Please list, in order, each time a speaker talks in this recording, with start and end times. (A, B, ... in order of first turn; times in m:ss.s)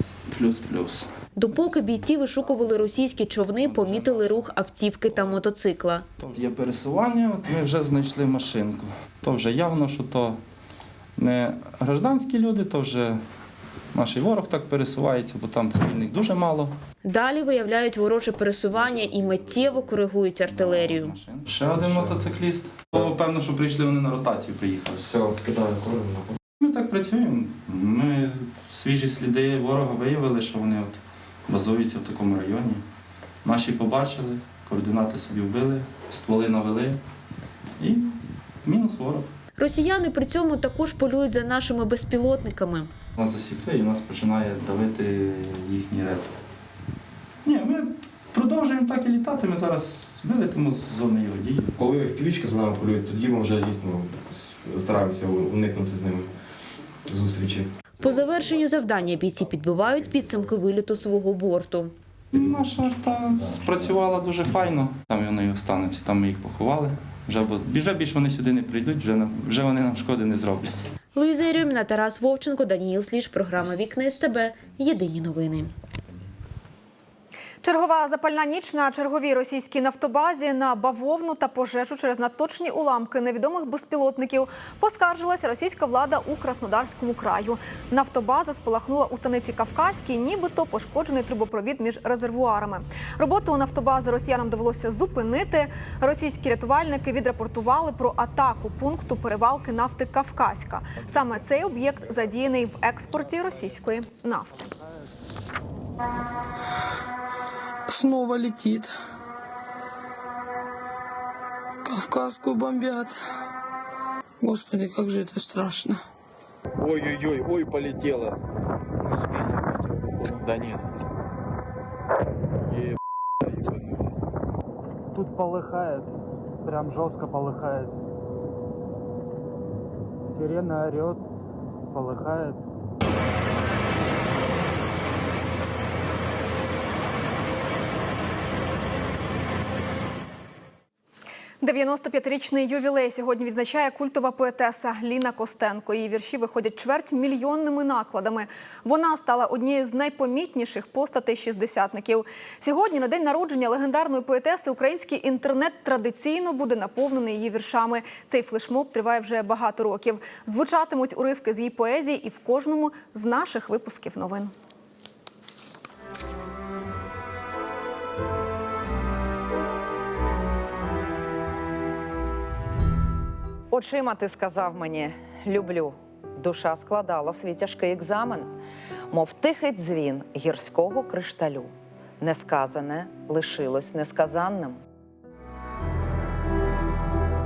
0:00.3-0:01.1 A
0:01.4-0:06.1 B
0:03.6-0:04.5 A
0:06.2-0:10.4 A
0:11.2-0:13.2 A
0:13.9-0:16.8 A
0:17.0-0:21.2 B
0:20.4-0:25.0 A
0:21.7-0:22.4 C
0:24.9-0:26.4 C
0:26.6-0:32.8 A
0:33.4-0:37.0 A
0:37.8-0:39.3 A
0:39.6-0:42.9 B
0:43.2-0:46.3 A
0:47.4-0:51.7 A
0:51.8-0:57.7 C
0:58.0-1:01.9 B
1:02.3-1:10.9 A
1:11.2-1:15.7 B
1:17.6-1:44.8 D
1:47.9-1:48.9 E
1:51.8-1:53.1 E
1:54.4-1:56.0 E
1:56.9-1:57.3 C
1:58.0-1:58.3 C
2:05.2-2:06.1 F
2:06.6-2:07.9 F
2:10.4-2:11.2 F
2:11.9-2:12.6 F
2:21.6-2:44.5 D
2:53.7-2:58.5 G
2:59.1-3:04.8 G